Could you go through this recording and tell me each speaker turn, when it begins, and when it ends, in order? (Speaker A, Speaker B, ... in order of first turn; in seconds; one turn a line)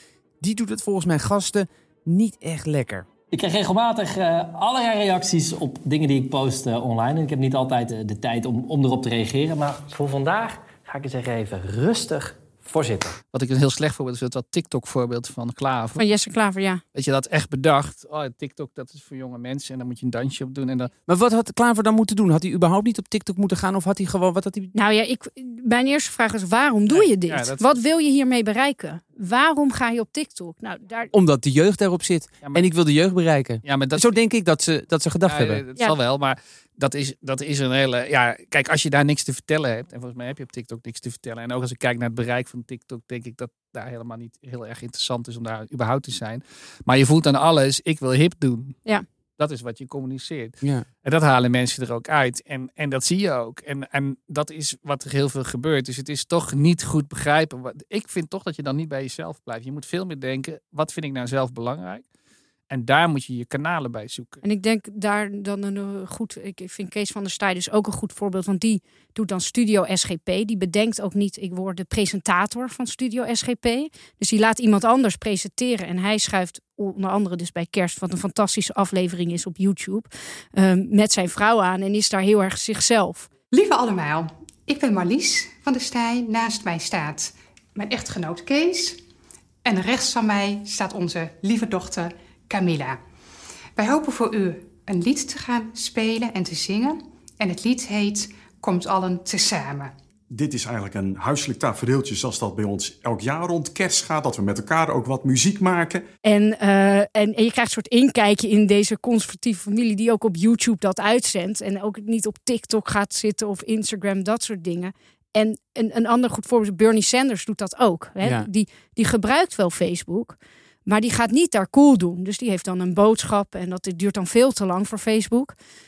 Speaker A: 0.4-3.1
Speaker B: 3.3-13.1
Speaker C: 13.3-16.0
Speaker D: 16.0-16.8
Speaker C: 16.9-20.9
Speaker A: 21.1-24.7
Speaker D: 24.7-31.1
Speaker C: 26.9-27.7
Speaker A: 31.1-35.6
Speaker C: 32.4-32.7
Speaker C: 33.6-34.1
Speaker C: 35.2-48.8
Speaker C: 49.4-62.0
Speaker C: 62.7-64.4
Speaker D: 64.4-83.3
Speaker E: 83.5-89.0
Speaker E: 89.6-93.0
Speaker E: 93.8-99.9
Speaker F: 100.3-106.0
Speaker D: 106.2-125.5
Speaker A: 118.2-118.5